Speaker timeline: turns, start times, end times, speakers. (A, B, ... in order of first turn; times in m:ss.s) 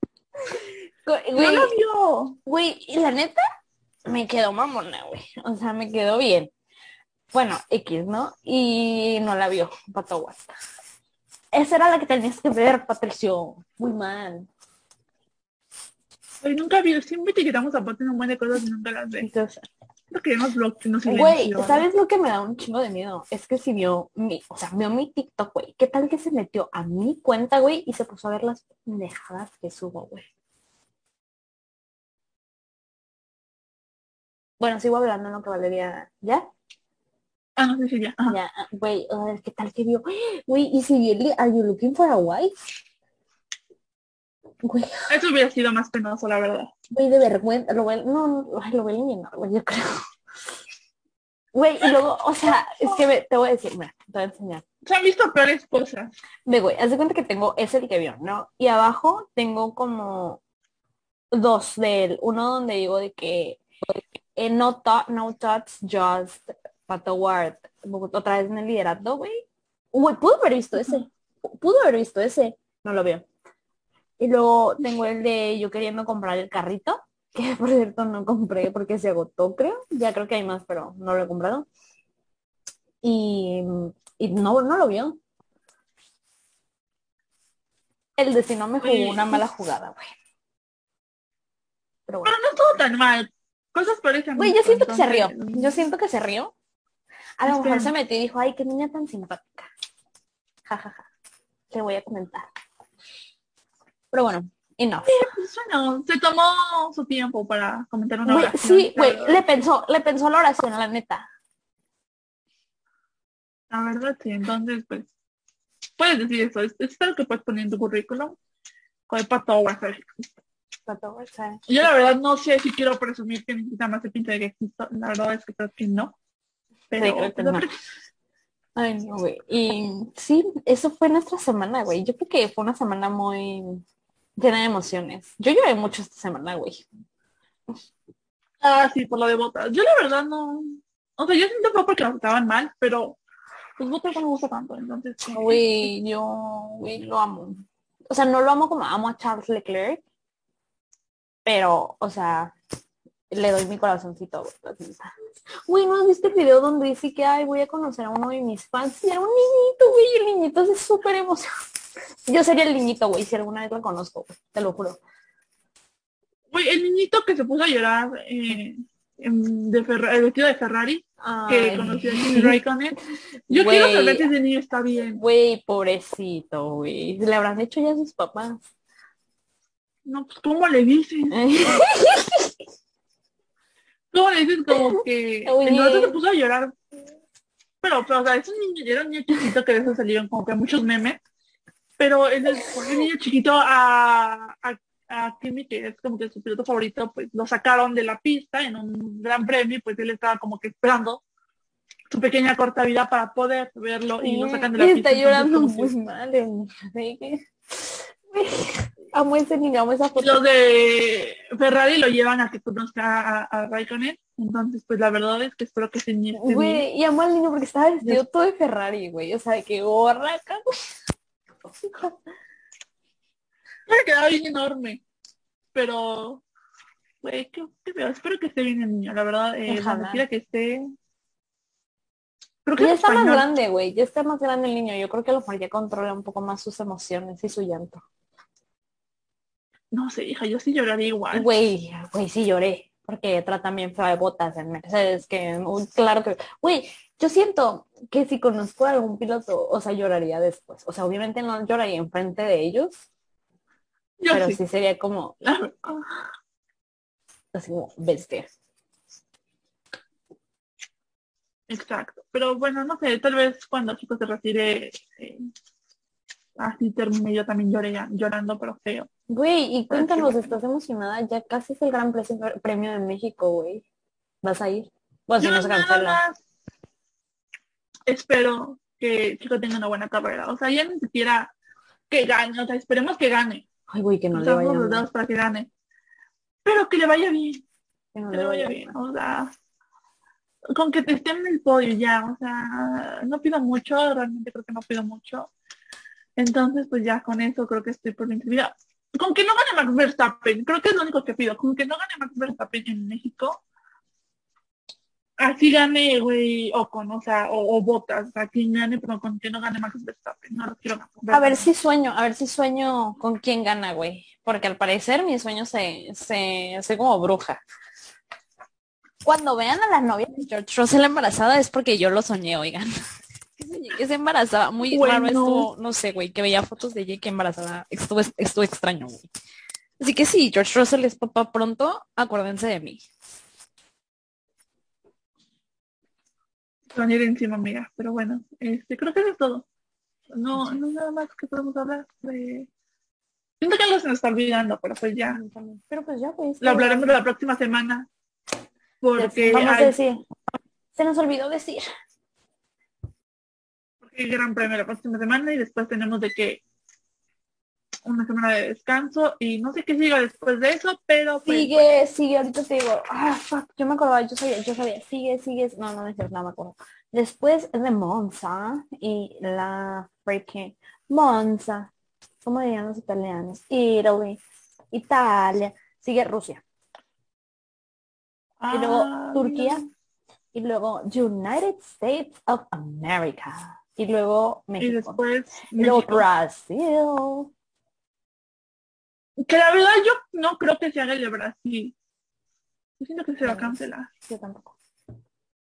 0:00.5-0:01.7 A
0:01.4-0:02.4 B
0:02.5-0:03.4 A
0:04.1-0:06.5 A
0:07.3-0:10.5 A
0:11.5-0:14.5 A
0:16.4-0:19.3 B
0:19.2-0:19.7 A
0:20.1-0:21.9 B
0:21.1-0:30.3 A
0:34.6-0:36.5 A
0:37.6-0:38.4 B
0:38.3-0:42.6 A
0:44.6-0:45.1 A
0:45.1-0:46.7 B
0:46.9-0:50.1 A
0:51.5-0:54.6 A
0:52.7-0:53.0 B
0:54.9-0:56.1 B
0:56.5-1:00.4 A
1:01.3-1:13.3 A
1:14.2-1:21.7 A
1:23.0-1:25.2 A
1:28.2-1:30.1 A
1:28.8-1:29.4 B
1:32.1-1:32.4 A
1:32.2-1:35.8 B
1:34.4-1:36.5 A
1:37.4-1:39.7 A
1:37.4-1:37.9 B
1:40.7-1:41.1 A
1:41.7-1:42.5 A
1:44.1-1:45.3 A
1:45.0-1:49.4 B
1:48.2-1:51.3 A
1:53.7-1:55.1 B
1:56.0-1:58.4 B
1:59.1-2:00.3 B
2:00.9-2:01.9 A
2:01.7-2:06.1 B
2:06.9-2:07.8 B
2:07.0-2:07.7 A
2:08.8-2:13.8 A
2:14.4-2:16.9 A
2:18.6-2:23.2 B
2:23.8-2:25.6 B
2:25.3-2:30.0 A
2:31.4-2:32.6 A
2:33.3-2:41.5 A
2:42.3-2:45.0 A
2:46.5-2:53.0 B
2:51.2-2:52.6 A
2:53.5-2:55.2 B
2:53.5-2:54.3 A
2:55.2-2:58.7 A
3:00.1-3:01.8 B
3:01.3-3:02.6 A
3:04.1-3:06.8 B
3:04.7-3:06.2 A
3:07.8-3:11.2 B
3:12.0-3:21.2 B
3:22.1-3:25.9 B
3:24.2-3:30.4 A
3:30.2-3:36.8 B
3:36.4-3:40.7 A
3:41.8-3:42.2 A
3:43.9-3:45.0 B
3:45.7-3:46.4 B
3:47.2-3:50.9 B
3:49.7-3:50.2 A
3:52.6-3:53.5 B
3:52.8-3:58.0 A
3:59.9-4:01.5 B
4:01.3-4:13.1 A
4:14.2-4:14.6 B
4:14.3-4:15.4 A
4:15.4-4:16.1 B
4:17.5-4:18.5 A
4:21.7-4:25.5 B
4:26.6-4:29.1 B
4:29.3-4:33.8 A
4:29.9-4:30.5 B
4:34.4-4:36.2 A
4:35.4-4:36.4 B
4:38.1-4:41.5 B
4:42.1-4:43.7 B
4:43.9-4:45.1 A
4:44.3-4:45.7 B
4:46.6-4:47.6 B
4:48.1-4:49.0 A
4:48.3-4:49.5 B
4:50.7-4:55.5 B
4:56.4-5:03.6 B
5:05.4-5:11.7 B
5:11.3-5:17.6 A
5:19.2-5:22.9 A
5:23.6-5:29.3 A
5:24.8-5:25.7 B
5:30.0-5:33.0 A
5:36.9-5:39.6 B
5:40.3-5:42.7 B
5:43.6-5:45.4 B
5:45.3-5:47.1 A
5:46.6-5:48.1 B
5:49.0-5:50.0 B
5:49.2-5:50.2 A
5:50.9-5:51.9 A
5:54.0-5:56.6 B
5:58.1-6:01.8 B
6:01.5-6:11.9 A
6:12.4-6:16.6 A
6:18.6-6:19.9 B
6:18.7-6:19.8 A
6:20.5-6:25.2 A
6:24.8-6:26.2 B
6:25.8-6:27.5 A
6:29.4-6:31.9 B
6:33.0-6:34.1 B
6:33.4-6:34.8 A